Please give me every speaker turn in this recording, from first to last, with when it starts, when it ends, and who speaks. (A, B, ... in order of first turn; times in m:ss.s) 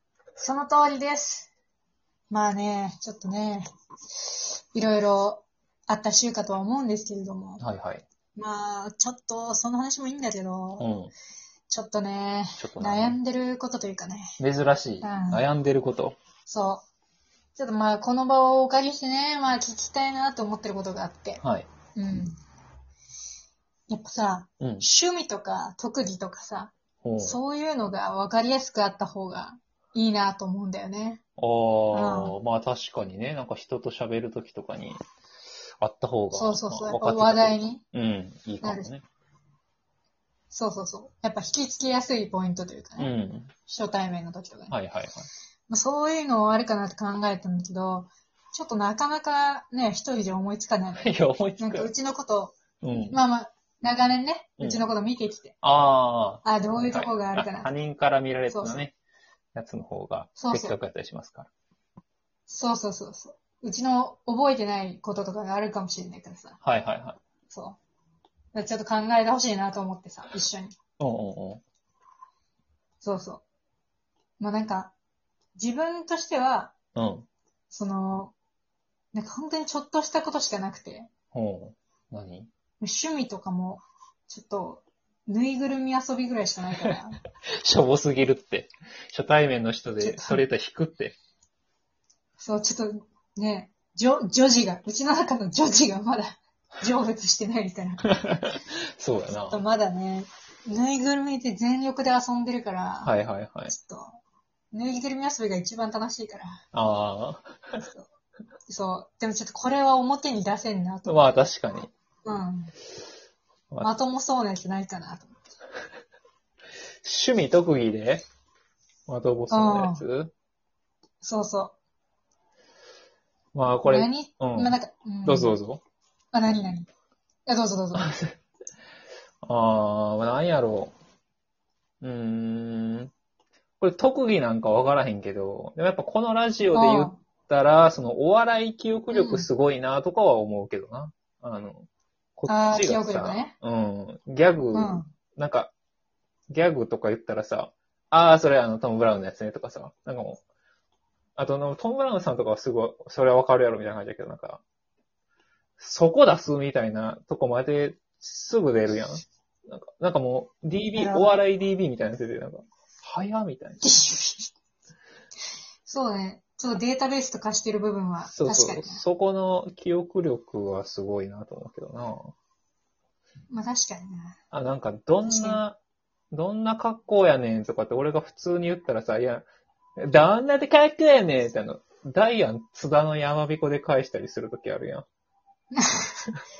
0:00.4-0:01.5 A
0:02.3-0:07.6 A
0:07.6-0:08.0 B
0:08.4-0:10.9 A
0:10.8-0:11.1 B
0:11.7-0:14.4 A
0:12.6-0:13.2 B
0:14.4-0:16.2 B
0:15.0-0:15.4 A
0:16.4-0:16.8 A
0:17.5-0:21.4 A
0:21.4-0:21.7 B
0:21.9-0:22.4 A
0:23.9-0:31.2 A
0:24.6-0:24.8 B
0:27.0-0:27.4 B
0:31.4-0:35.0 B
0:31.9-0:32.3 A
0:35.8-0:39.0 B
0:36.3-0:37.8 A
0:38.6-0:38.9 A
0:40.5-0:43.1 A
0:43.0-0:43.5 B
0:43.6-0:44.7 A
0:44.7-0:45.3 B
0:45.7-0:52.6 A
0:50.9-0:51.9 B
0:52.8-0:53.2 B
0:53.1-0:55.6 A
0:54.6-0:54.8 B
0:55.6-0:58.9 B
0:56.4-0:57.7 A
0:58.5-0:58.8 A
0:59.5-1:01.5 B
1:00.4-1:00.8 A
1:02.5-1:06.6 A
1:06.6-1:07.2 B
1:07.5-1:07.8 A
1:08.5-1:10.8 A
1:11.0-1:11.6 B
1:13.0-1:13.4 A
1:14.4-1:14.9 A
1:15.6-1:16.8 A
1:16.9-1:17.3 B
1:17.7-1:18.3 A
1:19.1-1:21.1 A
1:21.3-1:22.5 B
1:22.8-1:27.2 A
1:27.6-1:31.2 B
1:30.0-1:30.4 A
1:32.4-1:38.1 A
1:38.0-1:39.6 B
1:39.5-1:43.1 A
1:43.0-1:43.7 B
1:43.7-1:44.2 A
1:44.7-1:46.6 A
1:46.7-1:47.8 B
1:47.8-1:48.1 A
1:48.7-1:51.5 A
1:51.0-1:51.9 B
1:52.2-1:52.7 A
1:53.8-1:55.4 A
1:57.0-1:58.2 B
1:59.1-2:00.3 B
1:59.5-2:00.0 A
2:01.2-2:01.7 A
2:03.5-2:05.8 B
2:03.8-2:05.6 A
2:06.3-2:06.9 A
2:07.5-2:08.1 A
2:07.9-2:08.4 B
2:09.4-2:10.9 B
2:12.0-2:13.1 B
2:13.8-2:25.7 B
2:16.7-2:17.2 A
2:19.1-2:19.5 A
2:22.5-2:23.5 A
2:24.7-2:25.1 A
2:26.5-2:30.4 B
2:31.4-2:34.6 B
2:35.8-2:44.1 B
2:41.0-2:41.4 A
2:43.8-2:44.5 A
2:45.8-2:49.0 A
2:48.3-2:52.3 B
2:53.5-2:54.4 A
2:54.5-2:55.8 B
2:55.2-2:55.6 A
2:56.3-2:59.4 B
3:00.0-3:05.1 B
3:05.7-3:06.3 A